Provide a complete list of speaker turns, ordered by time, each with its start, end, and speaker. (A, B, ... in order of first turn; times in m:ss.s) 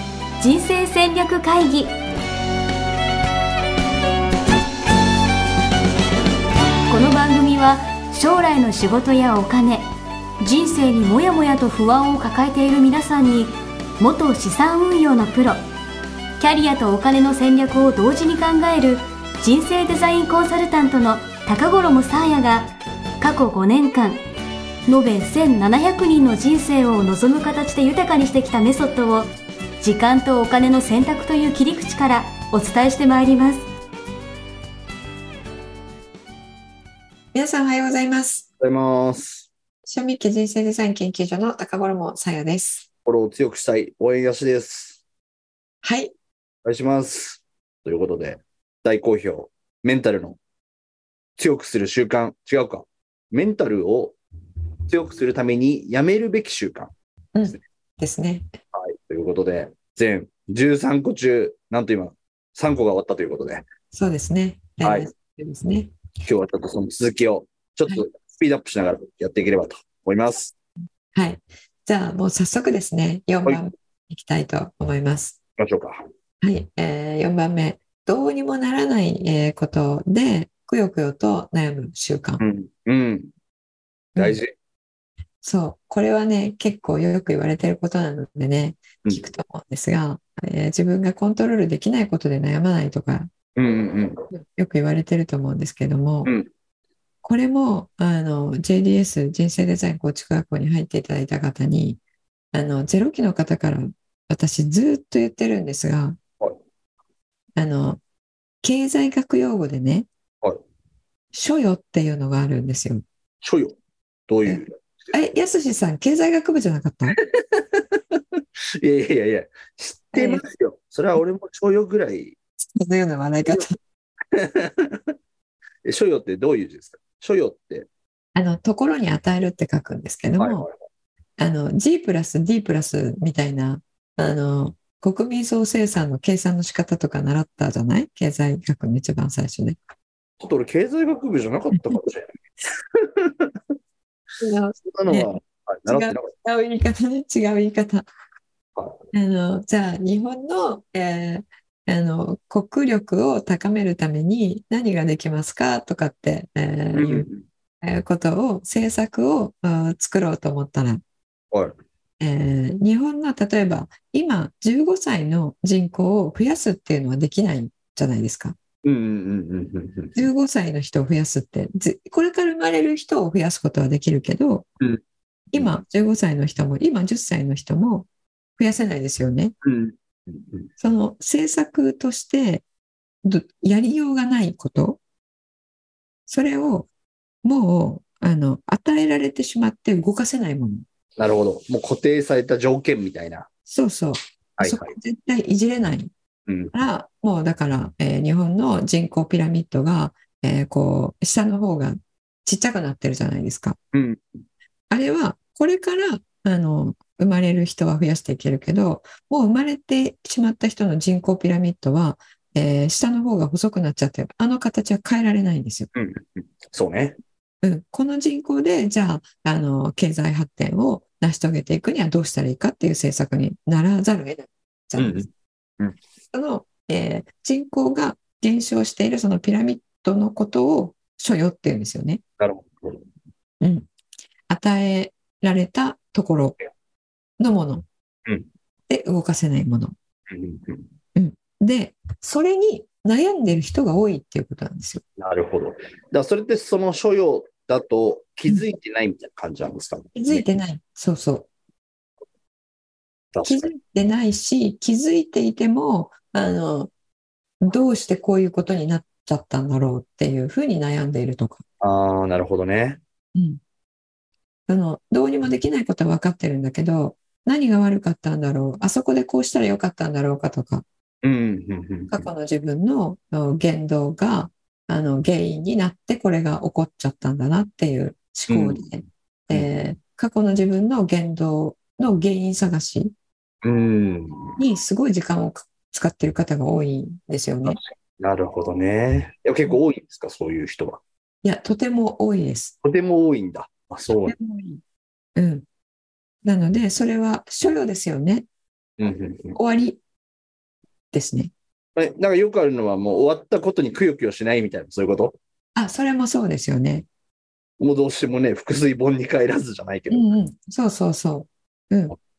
0:00.4-0:02.0 A
0:06.9-0:09.9 A
0:10.4-0:15.6 A
0:16.4-0:24.2 A
0:24.9-0:29.3 A
0:29.8-0:33.7 A
0:37.3-0:38.5 B
0:38.6-0:39.5 C
0:39.8-0:42.9 B
0:43.1-0:45.0 C
0:45.8-0:46.1 B
0:46.6-0:50.4 C
0:51.4-0:54.2 C
0:54.9-0:56.9 C
0:57.4-0:58.5 B
0:58.7-1:03.7 C
1:03.9-1:05.9 B
1:04.8-1:05.1 C
1:06.2-1:10.5 C
1:11.2-1:15.4 B
1:15.6-1:16.0 C
1:16.4-1:22.4 B
1:22.4-1:23.3 C
1:24.2-1:24.4 B
1:24.2-1:24.5 C
1:25.4-1:33.3 B
1:33.6-1:34.2 C
1:34.3-1:36.3 B
1:37.2-1:42.0 B
1:42.5-1:46.2 B
1:47.6-1:48.0 B
1:48.6-1:50.1 B
1:51.3-1:53.0 B
1:53.4-1:53.8 C
1:54.3-1:54.7 C
1:54.5-1:57.2 B
1:57.2-2:02.4 C
2:00.1-2:00.4 B
2:02.8-2:03.8 B
2:04.3-2:05.1 C
2:05.8-2:07.9 C
2:08.4-2:10.6 B
2:10.4-2:10.7 C
2:11.4-2:19.8 B
2:20.4-2:22.4 C
2:21.7-2:22.0 B
2:23.0-2:23.6 C
2:24.4-2:25.3 B
2:24.8-2:26.3 C
2:25.9-2:28.1 B
2:28.8-2:29.0 C
2:29.1-2:37.3 B
2:37.0-2:37.4 C
2:37.8-2:41.0 B
2:42.2-2:48.6 B
2:48.8-2:50.3 C
2:50.2-2:54.7 B
2:55.5-2:59.5 B
2:59.6-3:00.7 C
3:00.8-3:02.6 B
3:03.2-3:05.0 B
3:06.3-3:06.9 B
3:07.4-3:10.8 B
3:11.2-3:13.5 C
3:13.7-3:16.1 B
3:14.6-3:14.9 C
3:16.5-3:16.7 C
3:16.7-3:23.8 B
3:23.9-3:24.4 C
3:24.9-3:35.9 B
3:35.9-3:37.2 C
3:37.6-3:45.3 B
3:45.0-3:45.3 C
3:46.3-3:52.2 B
3:52.4-3:53.1 C
3:53.6-3:53.9 B
3:54.5-3:56.6 B
3:57.4-3:57.8 B
3:58.9-3:59.9 B
4:00.3-4:00.9 C
4:01.2-4:05.0 B
4:05.2-4:10.6 C
4:10.2-4:11.5 B
4:13.3-4:13.7 C
4:13.4-4:16.9 B
4:17.6-4:21.6 B
4:21.8-4:23.0 C
4:23.4-4:23.6 B
4:24.7-4:30.8 B
4:31.2-4:32.3 C
4:32.1-4:43.1 B
4:38.5-4:38.9 C
4:39.5-4:39.8 C
4:43.6-4:44.6 C
4:44.6-4:47.8 B
4:47.6-4:51.0 C
4:51.4-4:52.7 B
4:52.8-4:54.4 C
4:54.3-4:54.8 B
4:55.4-4:55.6 B
4:56.4-4:58.5 B
4:59.0-4:59.6 C
4:59.6-5:00.0 B
5:01.1-5:01.5 B
5:02.0-5:05.4 C
5:05.8-5:07.1 B
5:07.8-5:10.3 C
5:10.1-5:12.2 B